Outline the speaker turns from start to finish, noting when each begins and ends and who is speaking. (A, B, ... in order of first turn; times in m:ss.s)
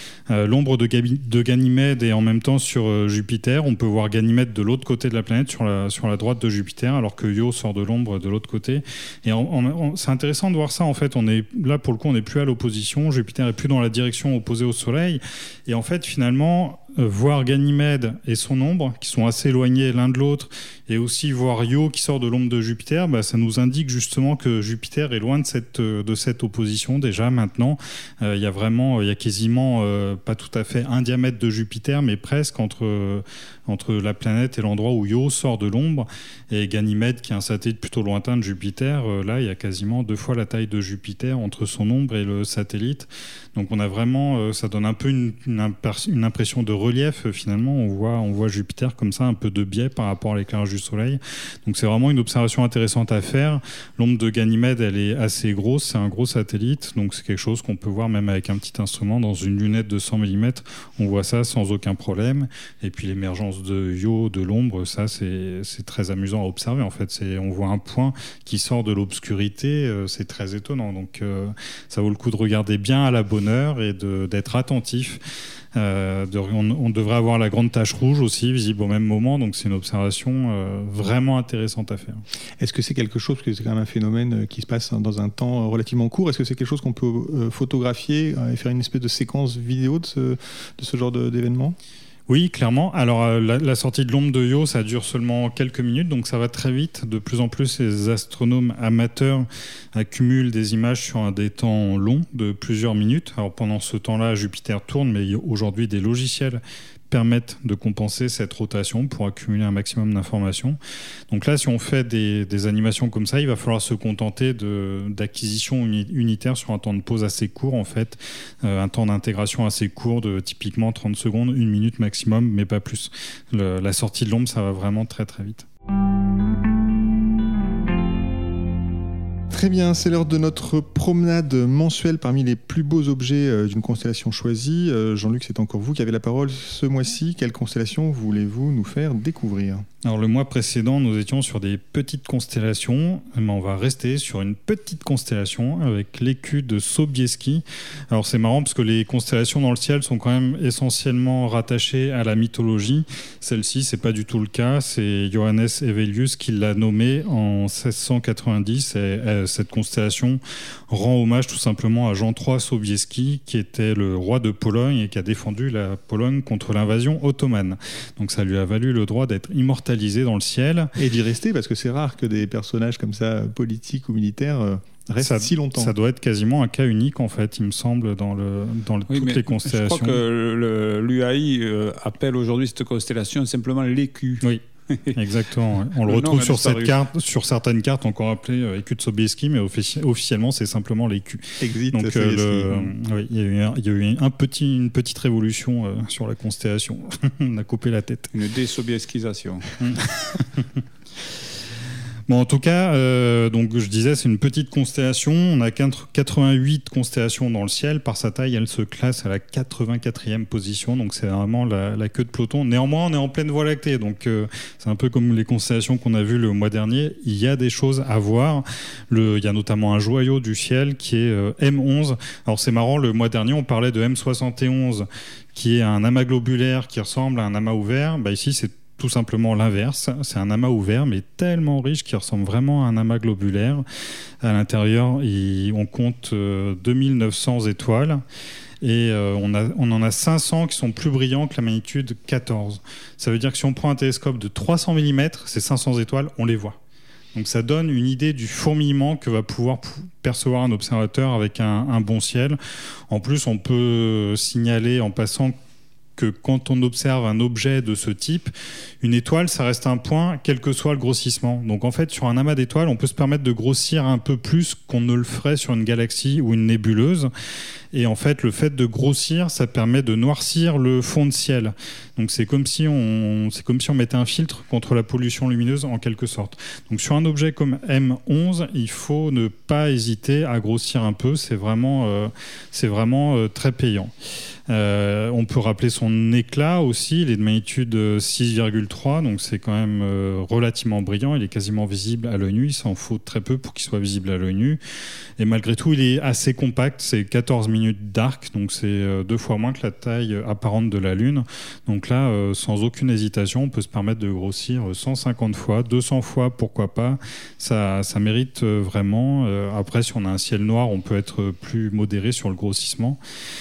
0:00.3-1:15.2 A
1:15.7-1:22.2 A
1:22.6-1:31.8 B
1:32.3-1:46.6 A
1:47.1-1:50.8 A
1:51.3-2:05.6 A
2:09.5-2:19.8 B
2:20.0-2:50.9 A
2:51.0-2:55.9 B
2:55.2-3:00.2 A
2:59.1-3:05.2 C
3:05.1-3:18.3 A
3:06.0-3:07.0 C
3:11.6-3:12.9 B
3:18.3-3:19.9 C
3:19.8-3:20.6 A
3:22.3-3:53.8 A
3:54.4-3:58.2 A
3:58.8-4:06.8 A
4:07.3-4:12.6 A
4:13.1-4:15.5 A
4:16.2-4:27.3 A
4:27.9-4:44.1 A
4:44.7-4:54.8 A
4:55.4-5:13.2 A